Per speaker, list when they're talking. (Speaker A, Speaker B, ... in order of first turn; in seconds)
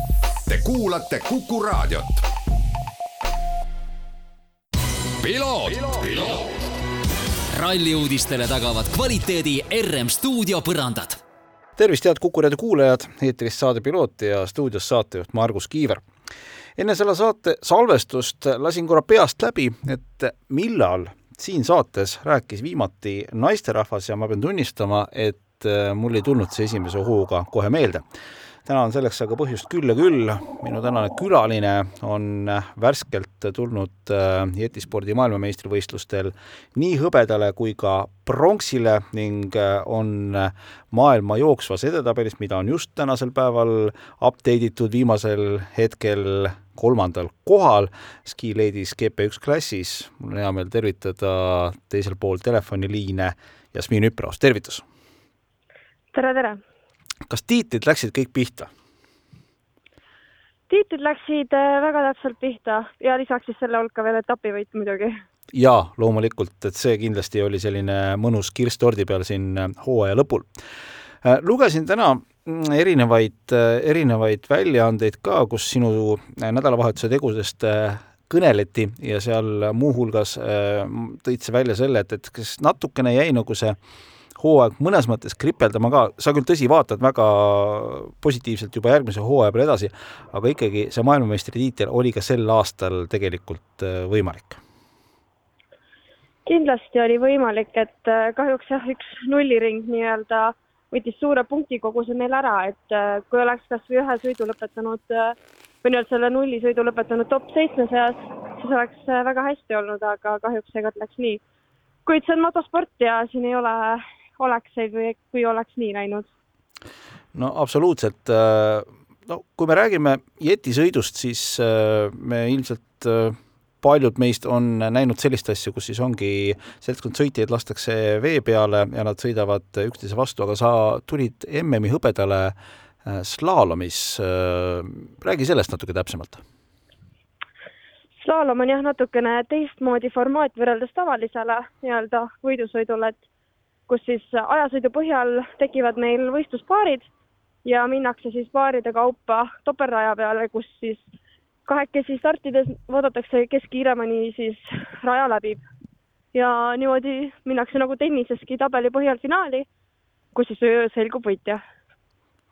Speaker A: 0.5-2.2, 5.2-6.4
Speaker B: 7.5-11.2
Speaker C: 11.8-16.0, 16.8-28.0, 28.6-54.8, 57.3-58.7, 65.5-70.5, 71.2-83.8, 84.4-94.6, 117.3-136.4
Speaker D: 56.1-56.6, 60.7-65.2, 96.4-111.4, 112.0-116.3, 138.2-143.2, 143.9-147.1, 147.6-151.1, 151.7-155.6, 156.3-159.7, 160.3-161.6